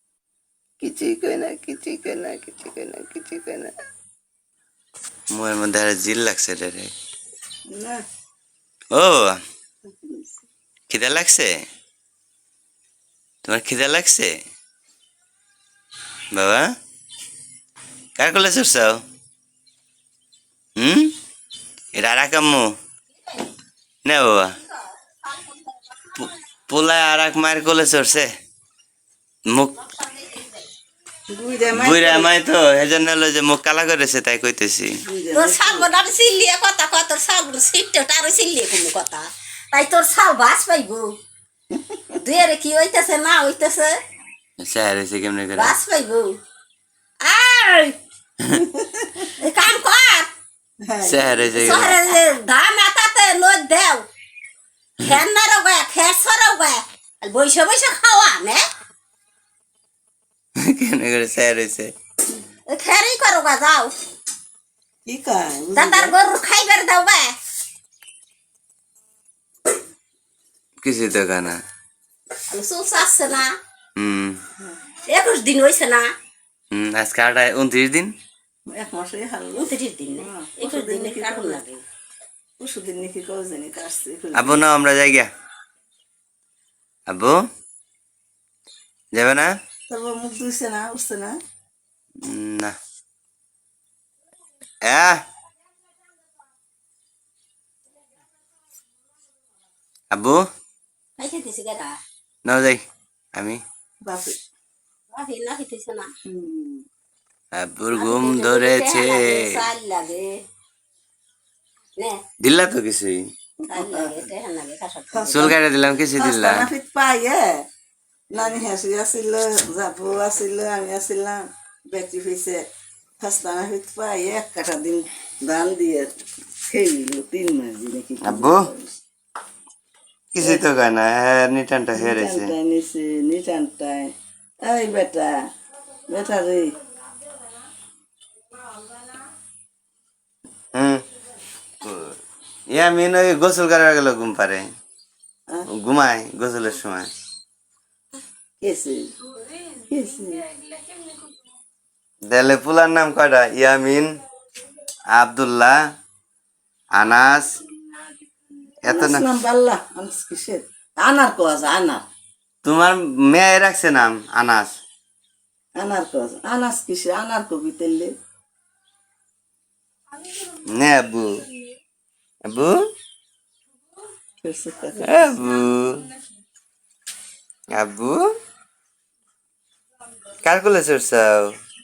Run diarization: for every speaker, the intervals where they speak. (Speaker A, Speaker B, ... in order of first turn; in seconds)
Speaker A: 0.9-3.0, 5.3-6.9, 8.9-9.4, 10.9-11.6, 13.4-14.3, 16.3-16.7, 18.2-19.0, 20.8-21.1, 21.9-22.7, 24.1-24.5, 26.2-28.3, 29.5-29.7, 31.7-34.9, 44.6-45.8, 51.0-52.0, 60.6-61.9, 70.8-71.6, 74.0-74.4, 76.7-78.1, 84.3-85.3, 87.1-87.4, 89.1-89.5, 92.2-92.7, 94.8-95.2, 100.1-100.4, 102.4-102.8, 103.3-103.6, 107.5-109.6, 112.4-113.2, 115.3-116.7, 128.2-128.7, 130.3-132.5, 140.7-141.0, 141.8-142.1, 142.7-144.6, 145.8-147.1, 152.3-154.1, 155.1-155.7, 157.0-157.5, 158.8-159.2, 162.6-164.8, 170.7-171.3, 172.5-172.7, 175.0-176.0, 177.8-178.2, 180.4-181.4
Speaker B: 7.7-8.0, 10.0-10.3, 31.3-32.3, 35.0-35.9, 41.7-42.1, 48.7-49.3, 50.8-52.0, 65.0-66.2, 78.7-81.6, 82.6-84.6, 89.9-91.3, 104.0-104.4, 106.2-106.8, 113.6-114.2, 115.1-115.6, 116.2-117.6, 118.3-122.6, 123.2-126.1, 126.7-128.9, 130.4-130.6, 131.9-134.1, 134.6-135.3, 136.1-136.7, 148.6-149.1, 149.9-150.4, 158.8-162.0, 165.8-168.1, 174.4-175.4
Speaker C: 35.3-41.1, 42.2-44.0, 45.5-46.4, 47.2-48.0, 49.4-50.3, 51.5-54.0, 55.0-58.6, 62.7-63.9, 65.7-67.3, 72.5-73.5, 75.1-76.1, 79.6-81.8, 101.2-102.0, 105.1-106.1, 107.9-110.3, 113.7-115.5